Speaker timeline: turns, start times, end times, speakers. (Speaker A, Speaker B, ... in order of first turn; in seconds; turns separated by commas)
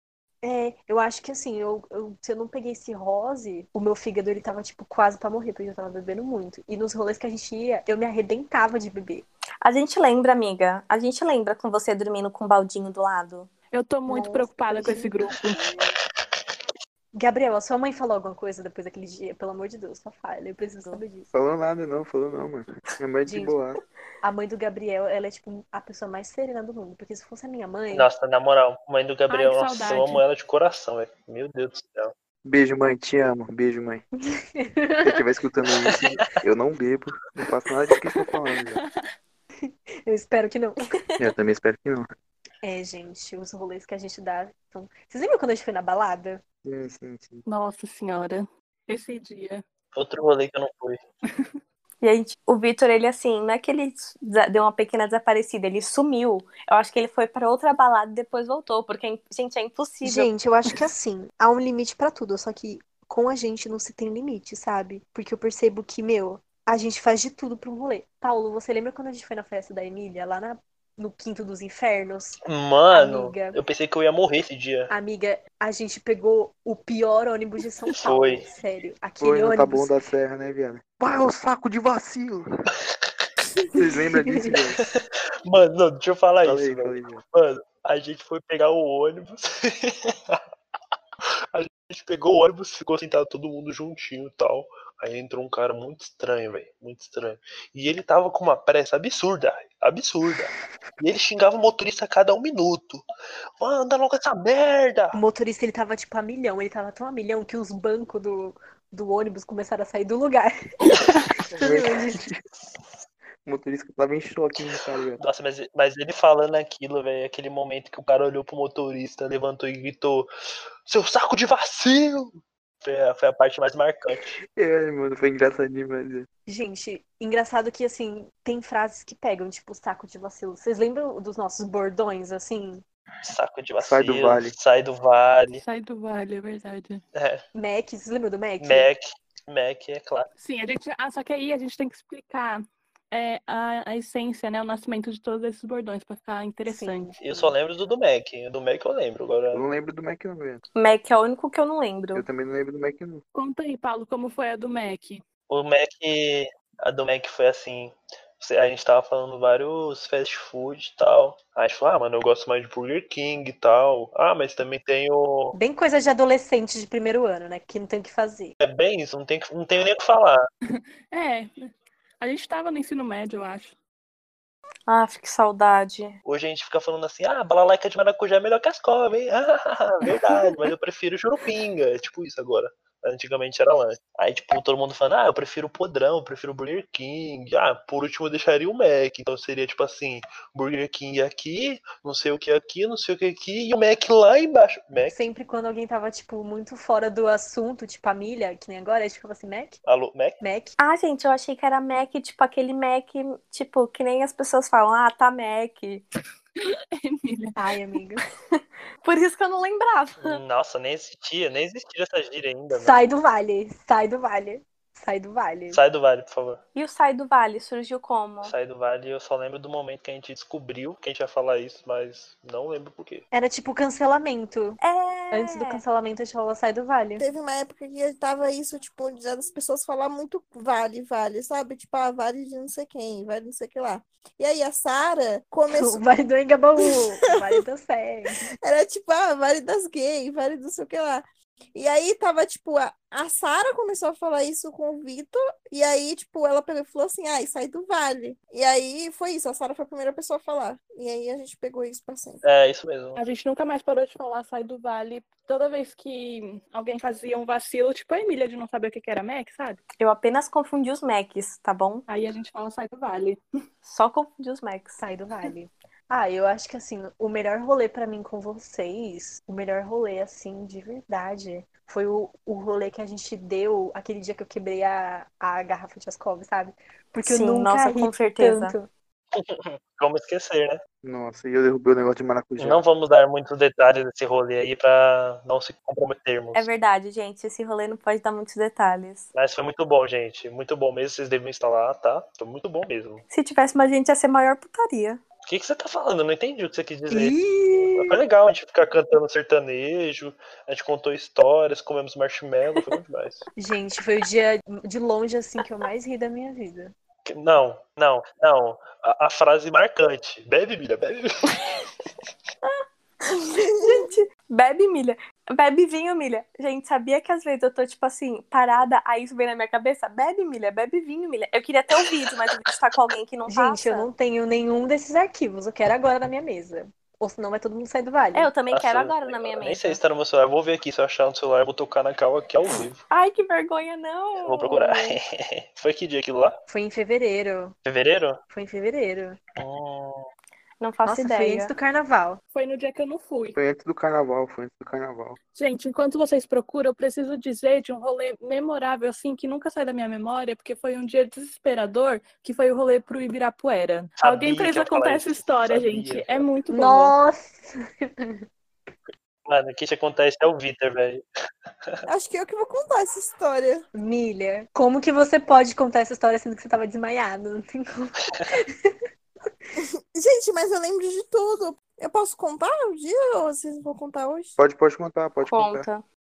Speaker A: 0.4-9.2, Speaker B: 9.6-13.5, Speaker C: 13.7-15.6, Speaker A: 14.1-15.5, Speaker A: 17.1-21.3, Speaker D: 21.3-23.8, Speaker A: 23.3-23.6, Speaker A: 24.2-28.1, Speaker E: 27.9-32.1, Speaker C: 29.3-30.2, Speaker D: 32.4-34.0, Speaker A: 34.4-35.2, Speaker D: 35.0-38.8, Speaker A: 39.6-41.2, Speaker D: 41.2-42.1, Speaker A: 42.6-46.4, Speaker D: 46.6-47.4, Speaker C: 47.5-49.6, Speaker E: 49.9-51.0, Speaker C: 51.3-51.6, Speaker B: 52.0-60.3, Speaker A: 60.0-72.4, Speaker E: 72.4-74.9, Speaker A: 72.9-73.6, Speaker A: 74.9-79.9, Speaker E: 78.0-78.5, Speaker D: 79.2-82.5, Speaker D: 83.7-84.8, Speaker E: 85.5-90.4, Speaker D: 86.4-87.2, Speaker E: 91.5-103.0, Speaker E: 103.6-105.2, Speaker A: 105.1-110.9, Speaker D: 111.5-112.4, Speaker A: 111.6-112.2, Speaker D: 113.4-115.2, Speaker E: 115.2-120.3, Speaker E: 120.8-124.4, Speaker D: 124.5-126.3, Speaker A: 126.5-132.8, Speaker E: 133.2-135.6, Speaker D: 133.8-134.5, Speaker C: 135.6-137.0, Speaker E: 137.1-137.4, Speaker A: 137.5-138.9, Speaker E: 138.6-140.3, Speaker C: 140.4-147.1, Speaker A: 146.6-147.6, Speaker E: 147.2-149.7, Speaker D: 149.5-150.6, Speaker B: 150.7-152.2, Speaker D: 152.1-153.2, Speaker C: 153.3-155.2, Speaker E: 155.5-165.6, Speaker A: 165.5-168.5, Speaker E: 168.6-170.5, Speaker C: 170.7-173.7, Speaker B: 174.9-176.2, Speaker E: 176.2-195.2, Speaker A: 195.1-199.8, Speaker E: 199.8-200.4, Speaker A: 200.4-200.7, Speaker B: 200.8-206.0, Speaker C: 206.6-207.6, Speaker A: 207.6-208.2, Speaker B: 208.5-210.4, Speaker E: 210.2-212.9, Speaker A: 212.7-215.8, Speaker E: 215.7-216.6, Speaker B: 216.7-218.5, Speaker E: 218.4-223.2, Speaker A: 223.3-224.8, Speaker B: 224.8-225.8, Speaker A: 225.3-227.2, Speaker F: 227.2-236.0, Speaker A: 235.7-238.4, Speaker F: 238.6-241.2, Speaker F: 241.8-252.4, Speaker E: 252.4-253.2, Speaker C: 253.2-259.8, Speaker B: 259.9-262.0, Speaker C: 262.1-263.4, Speaker B: 263.8-265.0, Speaker A: 265.0-278.9, Speaker B: 277.2-278.7, Speaker E: 279.3-280.8, Speaker D: 281.0-282.8, Speaker E: 282.6-286.7, Speaker B: 286.5-289.3, Speaker E: 289.3-293.2, Speaker B: 293.3-295.2, Speaker E: 295.4-297.4, Speaker A: 297.1-298.1, Speaker E: 297.9-303.4, Speaker A: 303.6-306.9, Speaker E: 307.2-311.9, Speaker B: 312.6-324.1, Speaker F: 313.6-314.1, Speaker A: 323.5-328.5, Speaker B: 328.3-330.0, Speaker E: 328.7-333.0, Speaker B: 333.1-335.2, Speaker E: 334.4-336.6, Speaker A: 336.7-337.7, Speaker E: 337.9-338.4, Speaker A: 338.5-339.4, Speaker E: 339.6-340.3, Speaker B: 340.8-341.7, Speaker A: 341.0-342.4, Speaker C: 342.5-343.6, Speaker D: 343.5-345.4, Speaker C: 345.5-357.1, Speaker E: 354.2-356.5, Speaker A: 356.7-358.4, Speaker E: 359.4-361.2, Speaker F: 362.1-363.8, Speaker A: 363.9-368.9, Speaker F: 369.8-374.5, Speaker D: 374.6-375.9, Speaker B: 375.5-376.0